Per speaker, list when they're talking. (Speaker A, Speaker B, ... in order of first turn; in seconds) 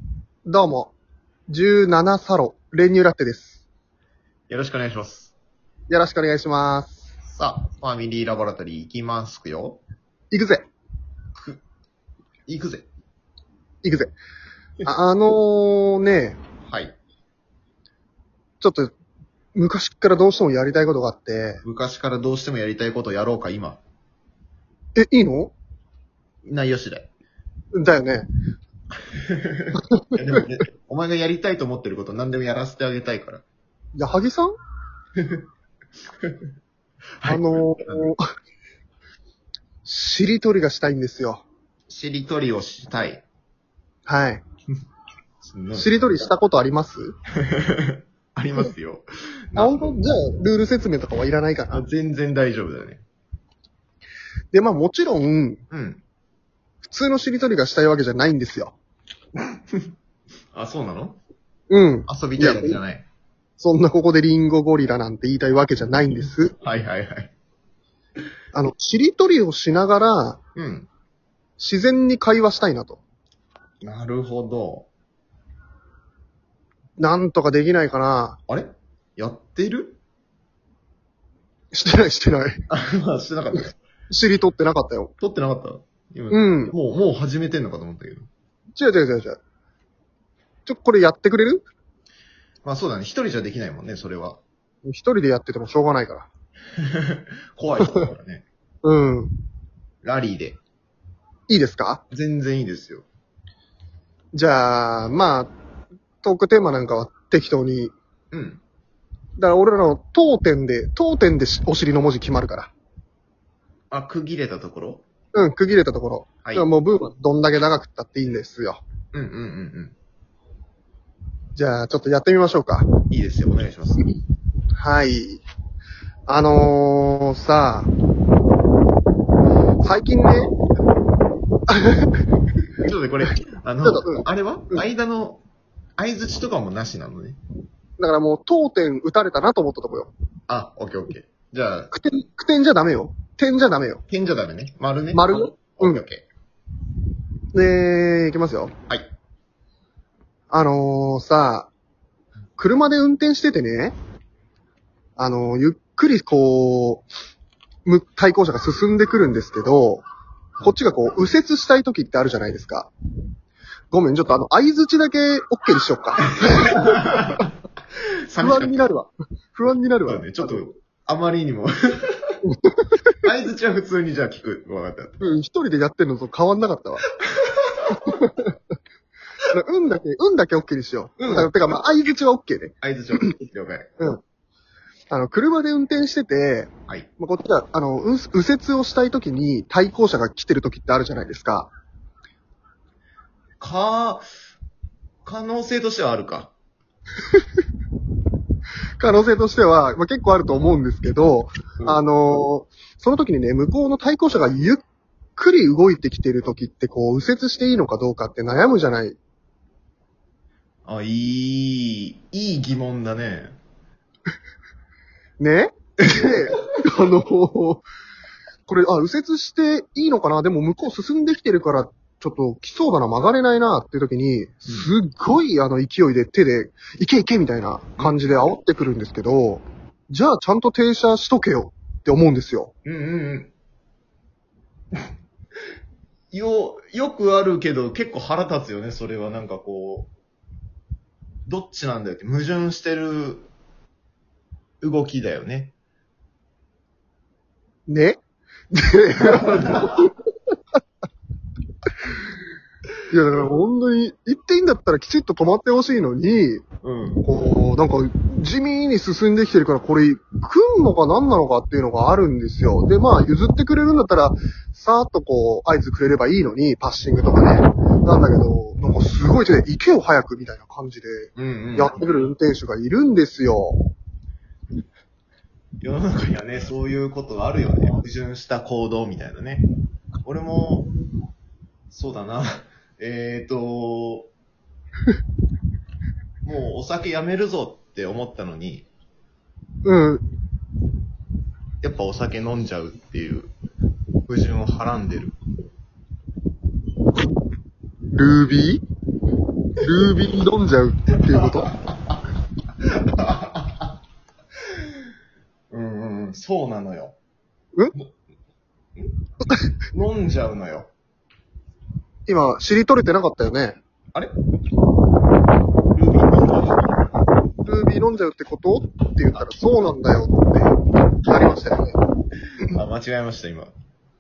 Speaker A: 0.5-0.9, 1.5-3.6, 5.9-7.1, 10.3-10.7, 13.8-14.2, 14.8-16.4, 18.6-18.9, 19.6-21.6, 25.0-25.5, 27.7-28.3, 29.8-30.4, 34.0-34.5, 37.2-38.2, 39.9-41.4, 44.1-44.4, 45.7-47.1, 49.6-51.9, 54.5-55.6, 56.8-58.8, 61.7-62.8, 63.6-66.5, 68.5-70.4, 71.6-73.0, 77.0-78.4, 81.7-82.6, 84.1-85.1, 86.3-86.8, 88.8-89.4, 90.7-91.7, 94.8-96.3, 98.8-99.3, 101.5-102.0, 104.3-105.5, 106.2-107.9, 109.4-112.7, 115.3-118.8, 121.5-122.9, 124.8-125.4, 126.3-127.9, 129.8-130.5, 131.7-132.1, 133.8-134.8, 138.0-140.1, 141.9-144.0, 145.1-146.1, 147.5-148.7, 150.5-151.7, 152.6-153.9, 155.2-157.1, 157.8-160.0, 160.6-162.9, 163.9-167.0, 168.4-170.7, 172.4-173.0, 175.2-177.0, 177.9-178.5, 179.5-183.3, 185.1-191.7, 199.0-204.8, 205.4-209.2, 215.4-217.9, 218.7-232.7, 247.9-248.2, 248.7-250.2, 253.1-256.6, 257.2-273.8, 289.9-290.2, 298.1-298.8, 299.8-301.7, 312.3-313.8, 317.6-322.0
Speaker B: 4.5-5.3, 7.2-9.8, 11.3-11.6, 12.5-12.9, 16.7-17.0, 21.6-23.8, 26.4-27.1, 29.1-33.5, 35.2-35.4, 37.2-38.0, 41.9-43.2, 45.4-45.9, 47.4-50.0, 51.7-53.0, 55.7-56.0, 60.5-61.2, 62.1-63.1, 66.6-67.3, 70.6-70.9, 73.8-74.9, 78.5-80.0, 82.7-83.8, 85.2-88.3, 92.7-94.4, 96.8-98.5, 100.0-100.6, 102.1-103.1, 108.3-108.6, 113.9-115.0, 119.1-120.0, 123.1-124.0, 132.8-135.4, 136.0-137.4, 140.5-141.9, 144.1-146.2, 166.3-167.5, 168.3-168.9, 170.1-172.4, 173.2-175.2, 177.3-177.9, 181.2-181.5, 182.8-184.0, 193.6-194.3, 195.2-196.5, 210.8-213.6, 228.0-228.5, 232.8-233.5, 236.3-240.1, 241.5-243.5, 244.8-245.7, 249.2-249.9, 256.8-257.3, 271.4-272.1, 275.8-279.7, 280.2-280.9, 281.9-284.3, 286.4-288.9, 291.8-293.5, 294.3-295.4, 301.3-302.1, 302.8-303.9, 305.7-307.2, 309.9-310.9, 315.9-316.9, 319.4-319.6, 322.6-323.7